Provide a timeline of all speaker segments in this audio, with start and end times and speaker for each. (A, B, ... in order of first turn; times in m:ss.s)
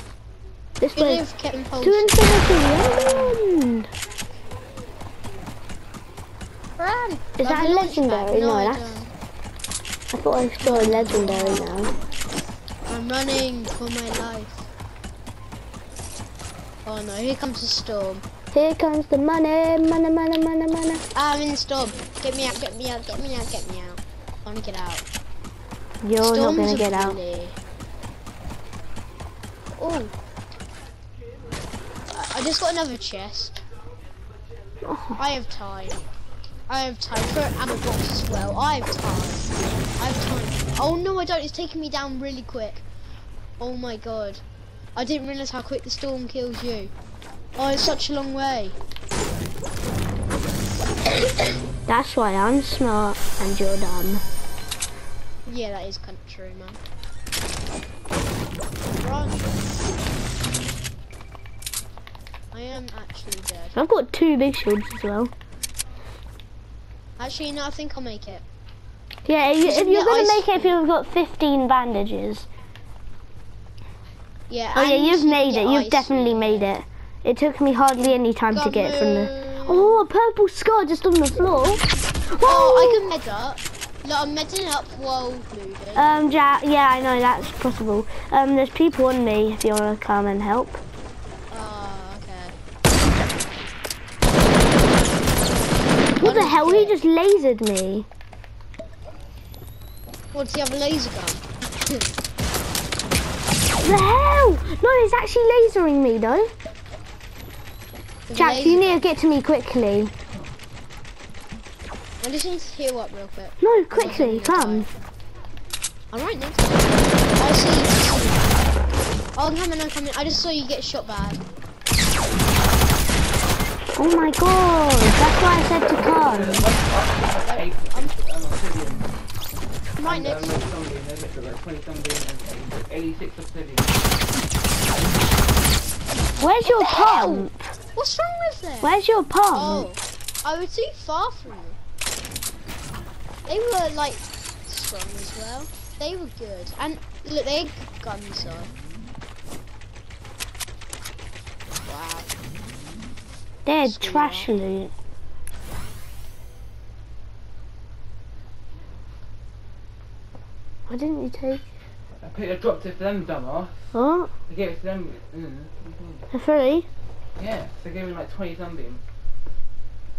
0:00.8-0:01.2 A
0:00.9-0:02.4 B
0:01.8-0:03.9 A
0:06.8-0:09.1 B
0:07.4-0:09.0 A
0:10.1-0:11.9 A
0:10.6-0:11.9 B
0:12.9-0:14.7 B
0:16.8-0:18.2 B
0:18.5-0:21.0 A
0:21.1-0:25.0 B
0:26.0-0:27.2 A
0:26.2-0:27.6 B
0:29.7-0:30.1 B
0:32.1-0:33.6 B
0:34.8-0:35.2 A
0:35.2-0:36.1 B
0:36.7-0:42.8 B
0:43.6-0:44.4 B
0:44.9-0:46.9 B
0:47.6-0:48.8 B
0:51.9-0:54.2 A
0:55.4-0:56.8 B
0:58.9-0:59.4 B
1:02.5-1:03.8 B
1:03.7-1:05.3 A
1:07.2-1:08.4 B
1:09.2-1:12.5 A
1:09.6-1:10.8 B
1:14.5-1:16.7 B
1:14.7-1:23.0 A
1:18.5-1:20.0 B
1:22.4-1:26.1 B
1:25.9-1:30.8 A
1:31.5-1:32.6 B
1:36.1-1:37.0 B
1:36.2-1:38.1 A
1:40.3-1:42.0 B
1:43.8-1:46.5 A
1:48.3-1:49.0 B
1:48.3-1:50.1 A
1:52.2-1:54.9 B
1:53.6-1:54.9 A
1:56.1-1:58.5 B
1:59.4-2:01.4 B
2:04.0-2:06.7 A
2:05.7-2:09.1 C
2:07.4-2:08.1 B
2:10.0-2:10.5 B
2:10.0-2:14.2 C
2:14.8-2:15.5 C
2:16.4-2:17.7 A
2:16.6-2:18.9 B
2:18.8-2:19.9 A
2:19.5-2:21.8 B
2:23.5-2:28.7 B
2:31.8-2:32.3 B
2:33.6-2:34.9 A
2:33.8-2:34.5 B
2:40.9-2:41.6 A
2:42.2-2:43.9 C
2:43.9-2:44.3 A
2:44.5-2:46.3 C
2:46.3-2:46.8 A
2:47.4-2:49.0 C